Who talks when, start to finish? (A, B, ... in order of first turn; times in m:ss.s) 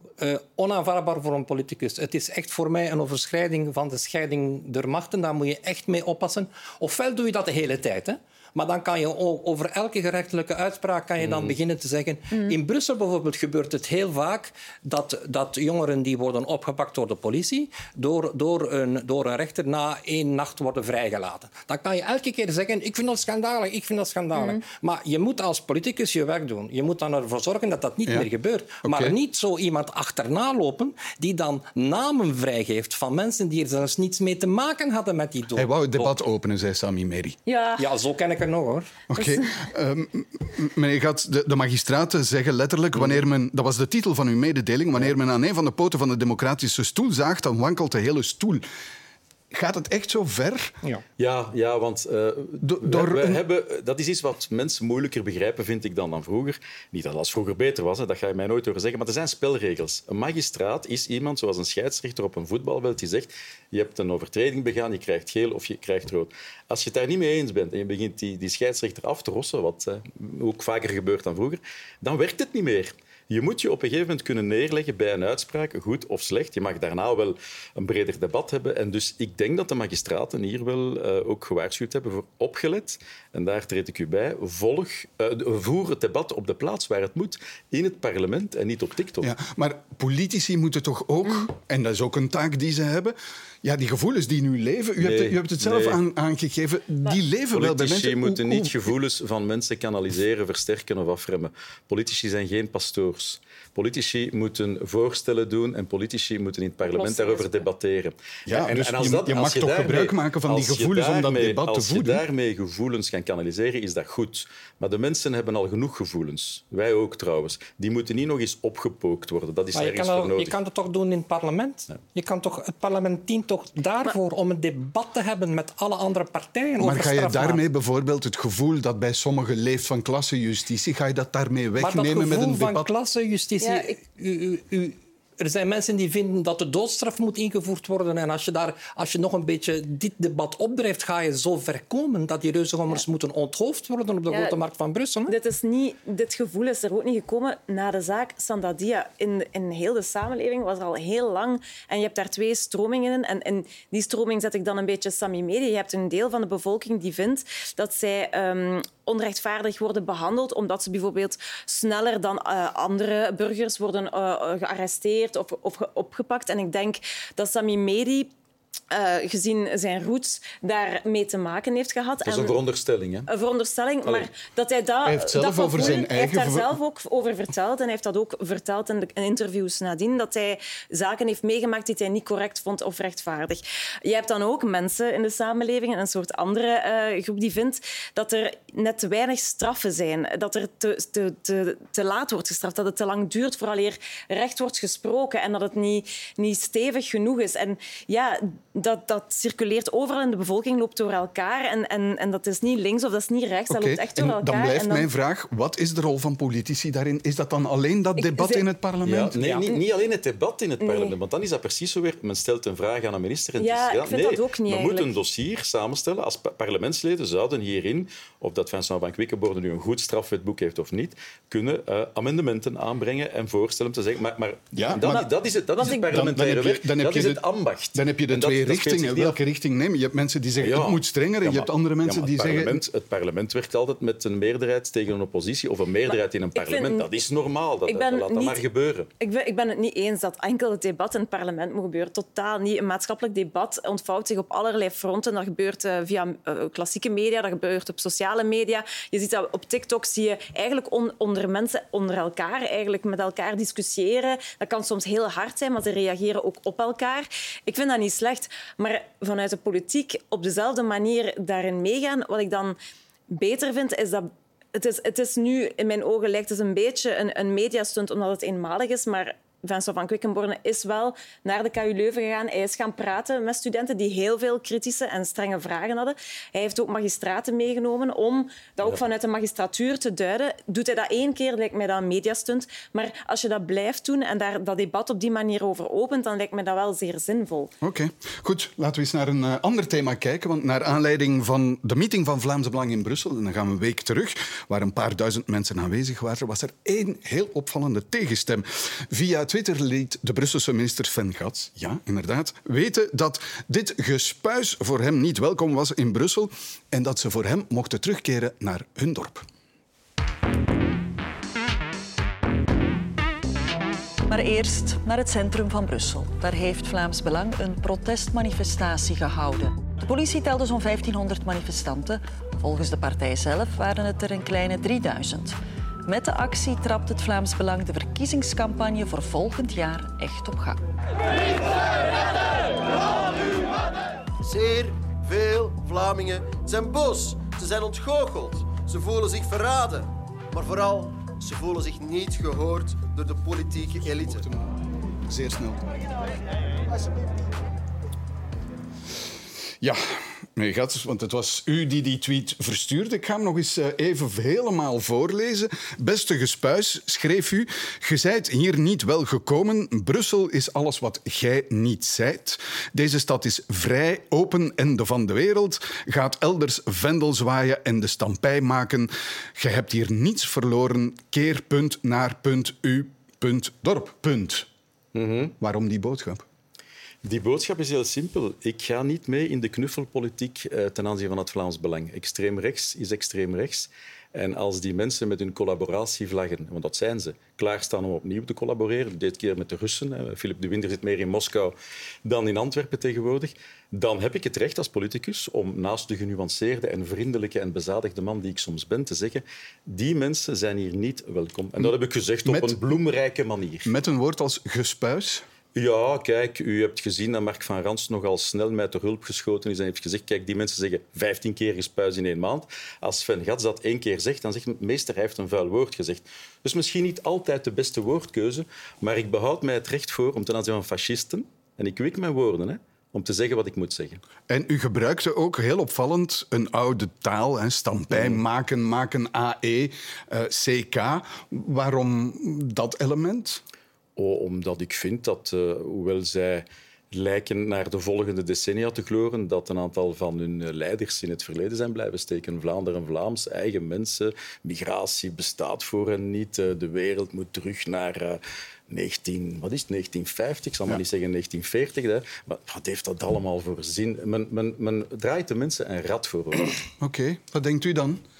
0:00.2-0:36.1 A
0:11.2-0:11.5 B
0:24.4-0:24.6 C
0:28.8-0:29.1 D
0:35.6-0:37.4 D
0:37.5-0:37.8 C
0:37.8-0:38.9 A
0:39.1-0:48.6 D
0:39.2-0:39.4 C
0:49.5-0:50.8 D
0:51.2-1:29.3 B
0:52.6-0:53.4 D
1:29.2-1:38.9 D
1:35.0-1:36.0 B
1:37.5-2:00.5 B
1:46.9-1:47.6 C
1:48.5-1:52.2 D
1:59.7-2:07.6 A
2:06.8-2:12.9 D
2:11.8-2:25.3 A
2:13.6-2:13.9 C
2:24.3-2:24.6 C
2:25.3-2:48.3 C
2:48.9-2:52.6 C
2:52.2-2:53.3 B
2:53.3-3:25.0 C
2:54.0-2:54.3 B
2:55.0-2:56.8 D
3:23.7-3:29.4 D
3:28.2-3:28.6 C
3:29.0-3:49.4 B
3:29.5-3:29.8 C
3:30.8-3:31.1 C
3:33.6-3:35.1 C
3:44.7-3:45.3 D
3:45.8-3:47.4 D
3:47.9-3:52.8 D
3:50.6-3:59.1 B
3:56.1-3:57.0 C
3:57.9-3:58.6 C
3:59.2-4:22.8 C
4:23.3-4:47.7 C
4:47.8-5:09.4 D
5:14.2-5:30.8 E
5:32.9-5:44.4 F
5:44.2-5:45.8 D
5:50.5-6:14.7 D
6:15.1-6:15.5 B
6:15.6-6:16.4 D
6:17.2-6:43.9 B
6:42.4-6:42.9 D
6:43.8-6:45.5 D
6:45.7-7:04.2 B
7:04.5-7:13.6 D
7:08.1-7:08.4 B
7:14.2-7:36.8 B
7:37.0-7:38.2 D